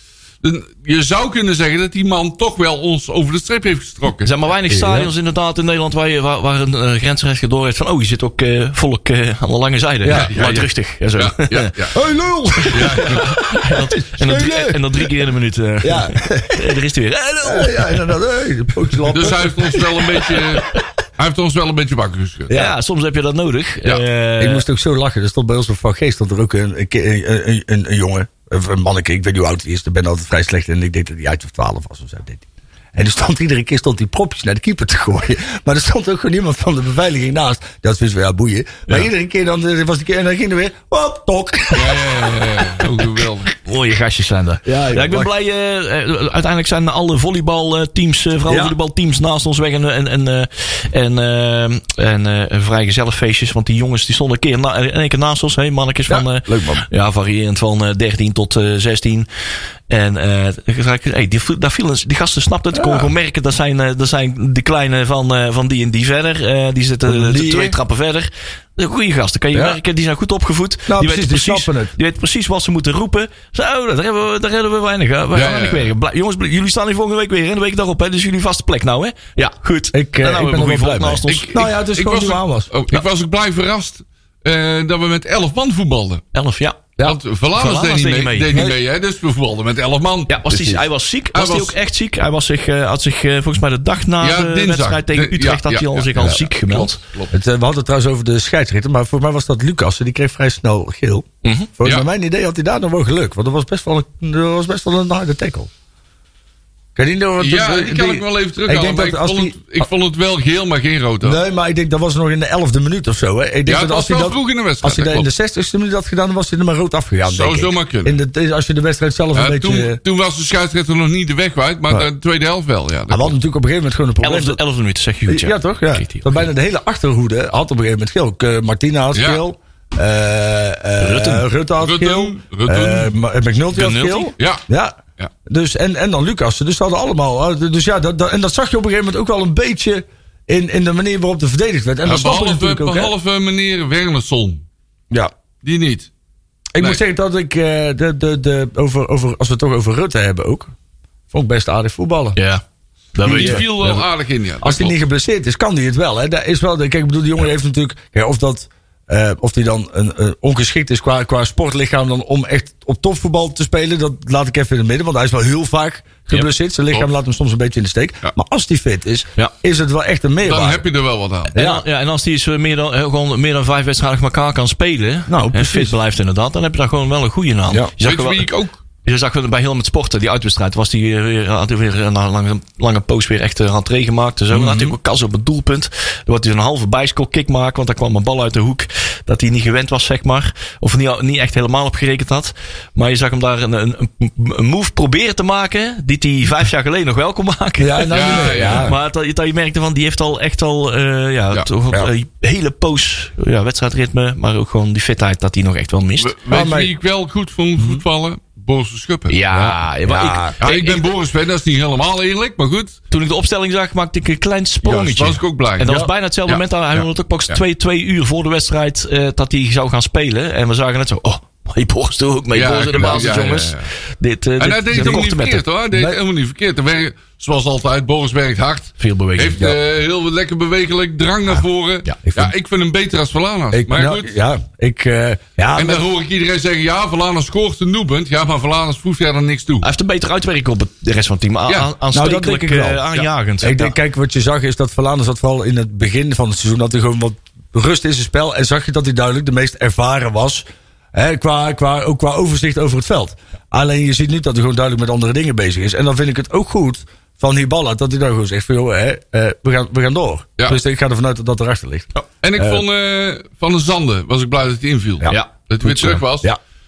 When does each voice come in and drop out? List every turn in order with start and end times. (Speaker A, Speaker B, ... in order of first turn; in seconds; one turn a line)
Speaker A: 0.4-4.4
Speaker B: 4.2-11.8
Speaker C: 4.7-5.1
Speaker C: 10.0-10.6
Speaker A: 10.1-11.9
Speaker C: 11.9-15.2
Speaker B: 12.6-18.1
Speaker A: 12.7-13.3
Speaker C: 15.8-16.8
Speaker C: 17.4-20.5
Speaker A: 19.1-22.5
Speaker C: 22.5-22.8
Speaker B: 22.5-24.6
Speaker C: 24.4-42.9
Speaker A: 41.7-43.5
Speaker B: 43.5-59.3
Speaker C: 44.7-45.3
Speaker C: 48.5-48.8
Speaker C: 56.1-56.9
Speaker B: 59.9-81.5
Speaker C: 62.7-63.1
Speaker C: 67.0-67.8
Speaker C: 69.5-69.8
Speaker C: 70.9-71.9
Speaker A: 75.3-75.9
Speaker C: 79.9-82.7
Speaker A: 81.3-86.2
Speaker B: 86.3-86.9
Speaker A: 87.0-90.7
Speaker B: 87.5-88.7
Speaker B: 90.3-97.0
Speaker C: 90.5-90.8
Speaker A: 91.3-91.8
Speaker A: 94.2-97.3
Speaker C: 96.2-105.7
Speaker B: 101.4-101.7
Speaker C: 107.0-109.8
Speaker A: 107.4-111.4
Speaker C: 111.2-120.0
Speaker A: 113.7-115.3
Speaker A: 117.2-118.2
Speaker A: 119.3-123.4
Speaker C: 123.1-124.6
Speaker B: 124.2-126.5
Speaker C: 125.3-143.1
Speaker A: 129.1-129.4
Speaker B: 131.0-131.5
Speaker A: 131.8-133.1
Speaker B: 133.7-134.3
Speaker A: 134.4-134.6
Speaker A: 142.0-144.6
Speaker A: 145.6-146.1
Speaker C: 146.7-150.7
Speaker C: 151.3-152.4
Speaker B: 152.4-152.6
Speaker B: 153.2-154.0
Speaker A: 153.2-155.0
Speaker C: 153.2-153.6
Speaker C: 154.6-170.8
Speaker A: 170.4-171.6
Speaker C: 171.5-171.8
Speaker B: 171.5-178.5
Speaker C: 175.3-175.9
Speaker A: 178.0-178.8
Speaker B: 179.0-206.3
Speaker C: 184.6-184.9
Speaker C: 197.8-199.0
Speaker A: 198.1-198.9
Speaker A: 206.2-209.4
Speaker C: 206.5-206.9
Speaker B: 209.3-211.1
Speaker C: 209.5-210.6
Speaker A: 210.6-213.0
Speaker B: 213.1-225.7
Speaker A: 214.8-217.6
Speaker C: 215.8-216.1
Speaker A: 222.5-223.9
Speaker A: 224.6-234.3
Speaker C: 224.9-225.3
Speaker C: 225.9-226.2
Speaker B: 229.0-229.7
Speaker C: 232.2-232.5
Speaker C: 233.7-236.0
Speaker A: 235.8-239.9
Speaker B: 239.8-244.0
Speaker C: 242.1-243.1
Speaker C: 243.6-262.8
Speaker A: 262.4-266.5
Speaker C: 265.2-266.6
Speaker B: 265.3-266.2